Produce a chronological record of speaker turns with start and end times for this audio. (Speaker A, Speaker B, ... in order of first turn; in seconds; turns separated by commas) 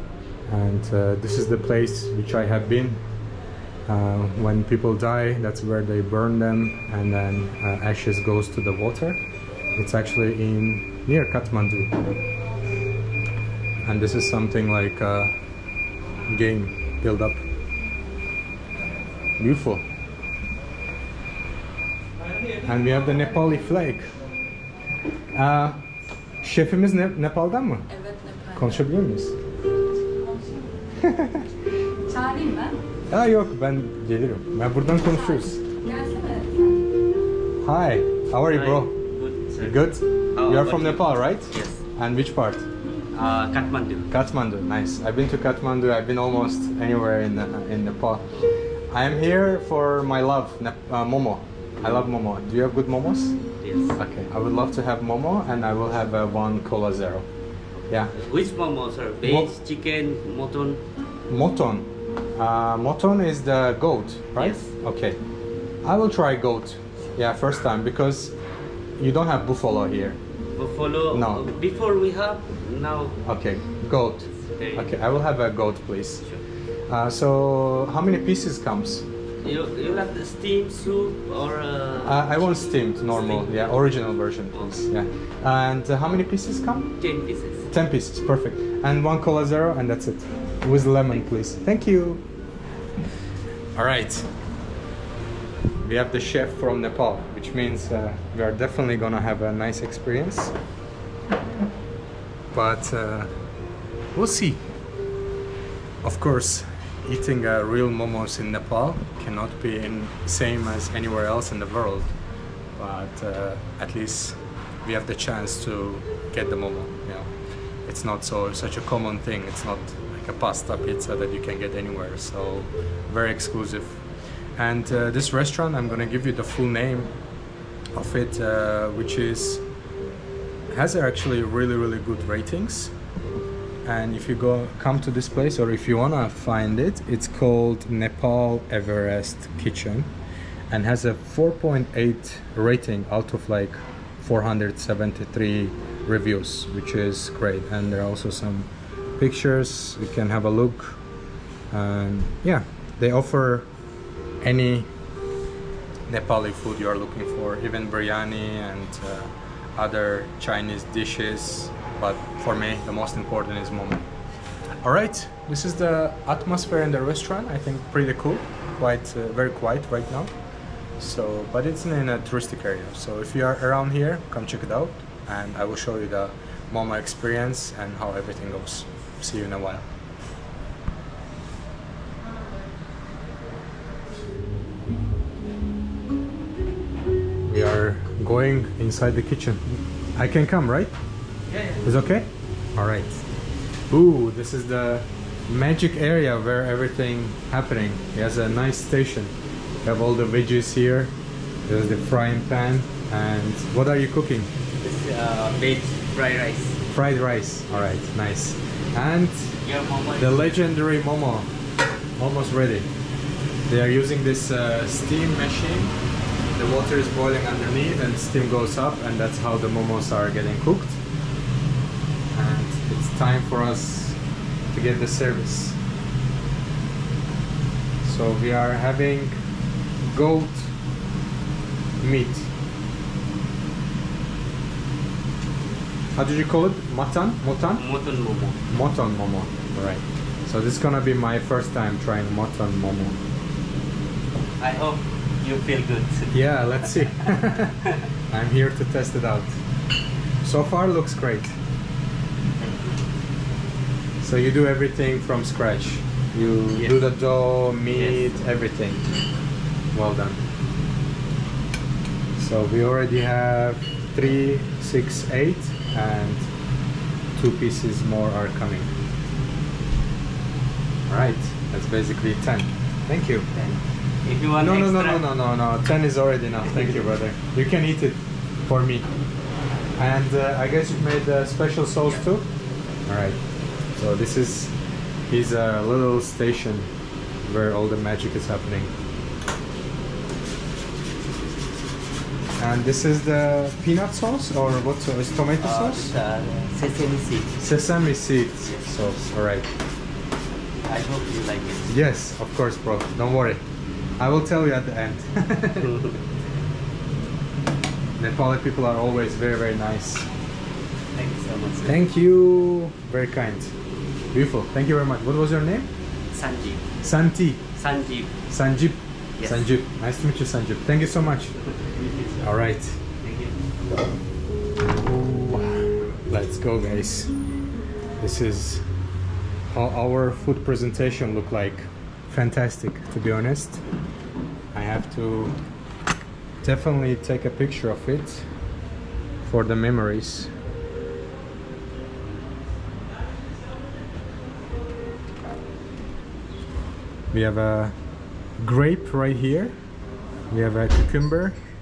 Speaker A: 0.5-3.0, Speaker A: 3.9-9.2, Speaker A: 9.8-12.0, Speaker A: 13.8-15.3, Speaker A: 16.3-17.4, Speaker A: 19.4-19.9, Speaker A: 22.6-24.1, Speaker A: 25.3-25.8, Speaker A: 26.4-27.9, Speaker B: 27.9-28.9, Speaker A: 28.6-29.4, Speaker B: 30.1-31.1, Speaker A: 31.0-31.4, Speaker B: 32.0-32.8, Speaker A: 33.1-35.6, Speaker B: 34.9-37.0, Speaker A: 37.6-39.0, Speaker C: 38.5-41.8, Speaker A: 39.6-42.7, Speaker C: 43.1-44.1, Speaker A: 44.1-48.3, Speaker A: 48.9-53.4, Speaker C: 53.6-54.0, Speaker A: 54.0-57.3, Speaker C: 57.8-60.8, Speaker A: 57.9-58.1, Speaker A: 59.2-59.5, Speaker A: 61.3-65.2, Speaker C: 64.4-64.7, Speaker A: 65.8-68.4, Speaker A: 69.0-70.2, Speaker C: 70.6-73.2, Speaker A: 71.1-71.4, Speaker A: 73.2-76.2, Speaker C: 74.6-74.9, Speaker A: 76.9-79.1, Speaker C: 79.4-84.0, Speaker A: 82.0-87.0, Speaker C: 84.5-84.8, Speaker C: 87.0-87.7, Speaker A: 87.7-92.2, Speaker A: 93.8-94.3, Speaker A: 95.8-100.5, Speaker A: 102.5-103.3, Speaker A: 104.2-104.7, Speaker A: 106.0-112.1, Speaker A: 112.8-117.3, Speaker A: 117.8-124.0, Speaker A: 124.6-127.1, Speaker A: 127.9-129.6, Speaker A: 130.7-132.9, Speaker A: 133.8-140.1, Speaker A: 140.7-151.0, Speaker A: 151.7-153.7, Speaker A: 154.4-154.9, Speaker A: 156.1-164.1, Speaker A: 164.8-170.3, Speaker A: 171.0-179.8, Speaker A: 187.4-190.9, Speaker C: 191.5-191.8, Speaker A: 191.8-193.2, Speaker A: 193.9-199.3, Speaker A: 199.8-201.1, Speaker A: 201.7-204.5, Speaker C: 204.8-206.8, Speaker A: 206.9-209.6, Speaker C: 209.6-210.4, Speaker A: 210.2-211.5, Speaker A: 212.2-212.9, Speaker A: 213.7-215.9, Speaker A: 216.6-221.0, Speaker A: 222.3-224.2, Speaker A: 224.7-225.8, Speaker A: 228.0-229.3, Speaker A: 230.0-230.7, Speaker A: 232.0-232.5, Speaker A: 236.2-237.8, Speaker C: 237.8-238.6, Speaker A: 238.7-243.2, Speaker C: 244.6-247.1, Speaker A: 246.3-249.6, Speaker A: 250.4-251.6, Speaker C: 252.6-253.0, Speaker A: 254.2-259.1, Speaker C: 257.9-258.2, Speaker A: 259.9-260.4, Speaker A: 262.4-266.5, Speaker A: 267.4-268.9, Speaker A: 271.1-273.5, Speaker C: 273.5-275.2, Speaker A: 274.6-279.1, Speaker A: 280.0-282.5, Speaker A: 283.1-283.4, Speaker A: 283.9-284.8, Speaker A: 285.3-286.9, Speaker A: 287.4-288.9, Speaker A: 292.6-296.1, Speaker C: 295.6-297.6, Speaker A: 297.6-299.7, Speaker C: 300.9-301.9, Speaker A: 301.9-303.6, Speaker A: 304.2-306.0, Speaker C: 305.8-306.1, Speaker A: 308.2-310.3, Speaker C: 311.1-312.0, Speaker A: 311.9-313.7, Speaker A: 314.3-315.9, Speaker C: 316.3-316.9, Speaker A: 317.0-317.6, Speaker C: 317.8-318.4, Speaker A: 318.5-321.6, Speaker C: 319.4-319.7, Speaker C: 321.6-322.4, Speaker A: 322.4-323.0, Speaker C: 323.2-323.6, Speaker A: 324.8-327.3, Speaker A: 328.2-328.8, Speaker A: 329.7-333.8, Speaker A: 334.7-335.6, Speaker A: 336.6-338.5, Speaker A: 339.4-340.5, Speaker A: 347.3-348.0, Speaker A: 348.6-349.8, Speaker A: 350.5-351.6